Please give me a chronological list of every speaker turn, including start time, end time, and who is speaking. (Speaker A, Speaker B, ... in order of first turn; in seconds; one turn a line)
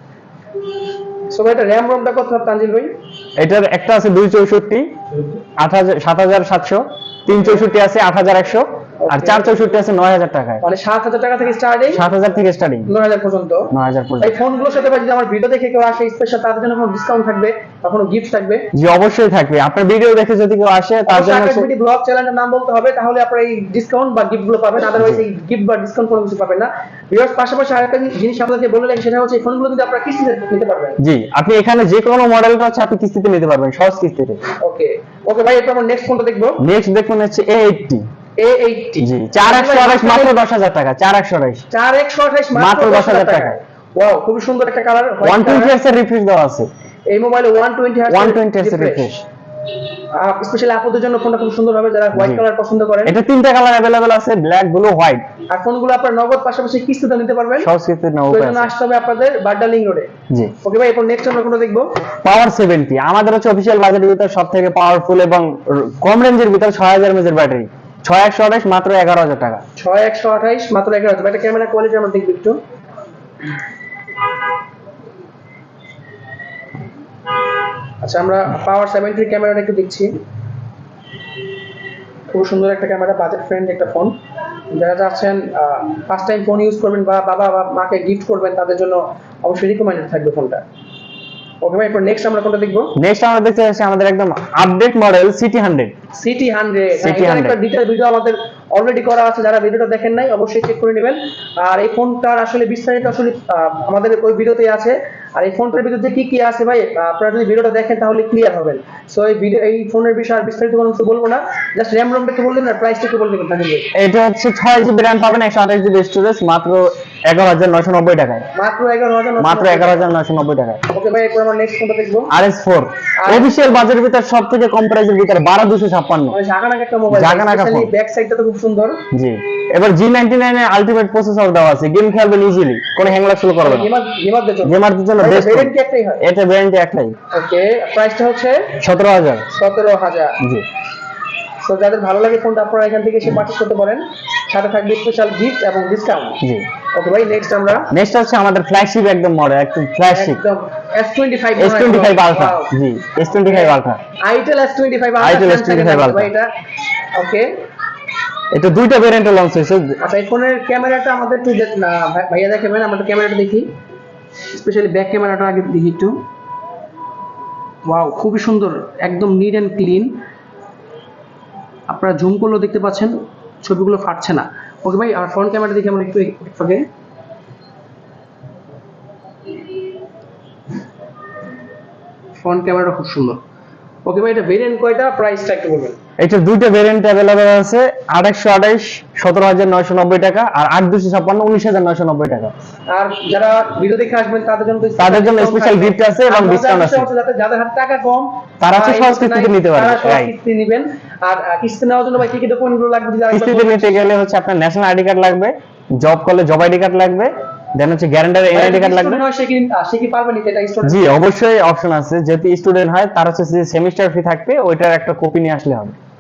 Speaker A: 1.3-2.9
Speaker B: 3.4-4.9
Speaker B: 5.6-10.6
Speaker A: 7.3-7.6
Speaker A: 9.0-9.6
Speaker A: 10.6-12.0
Speaker B: 11.9-12.9
Speaker A: 12.9-18.6
Speaker B: 13.7-14.3
Speaker B: 18.7-21.7
Speaker A: 21.1-31.0
Speaker B: 31.0-34.4
Speaker A: 34.6-36.6
Speaker B: 36.6-38.1
Speaker A: 38.4-40.4
Speaker B: 39.0-41.6
Speaker A: 41.7-45.8
Speaker B: 42.5-43.6
Speaker B: 45.2-46.7
Speaker A: 47.1-49.1
Speaker B: 48.1-49.2
Speaker A: 50.2-53.1
Speaker B: 52.1-52.4
Speaker B: 53.0-55.2
Speaker A: 55.5-57.7
Speaker B: 57.6-58.7
Speaker A: 58.3-60.1
Speaker A: 60.6-61.9
Speaker B: 62.2-69.6
Speaker A: 69.8-72.6
Speaker A: 78.0-80.1
Speaker A: 82.3-84.1
Speaker A: 84.7-90.6
Speaker A: 91.6-92.9
Speaker B: 93.0-96.0
Speaker A: 96.1-113.9
Speaker B: 97.0-97.6
Speaker B: 114.0-118.5
Speaker A: 118.5-120.1
Speaker B: 119.4-120.8
Speaker A: 120.9-122.3
Speaker B: 122.3-126.4
Speaker A: 123.2-123.6
Speaker A: 126.3-129.0
Speaker B: 127.1-127.9
Speaker B: 129.1-133.9
Speaker A: 133.6-136.2
Speaker B: 134.6-137.2
Speaker A: 137.3-138.8
Speaker B: 138.8-139.5
Speaker A: 139.5-140.4
Speaker A: 141.6-146.4
Speaker B: 146.4-146.7
Speaker A: 146.9-147.9
Speaker B: 147.9-150.4
Speaker A: 150.1-152.7
Speaker B: 151.6-154.0
Speaker A: 153.3-156.5
Speaker B: 155.2-156.3
Speaker A: 157.1-157.5
Speaker B: 158.5-160.0
Speaker A: 160.0-163.7
Speaker A: 164.5-166.2
Speaker A: 167.9-170.1
Speaker A: 171.9-176.9
Speaker A: 182.4-183.4
Speaker A: 184.1-186.0
Speaker B: 186.2-192.5
Speaker A: 192.9-204.1
Speaker B: 195.0-197.1
Speaker B: 198.6-200.3
Speaker B: 203.3-209.2
Speaker A: 208.5-211.2
Speaker B: 210.8-216.0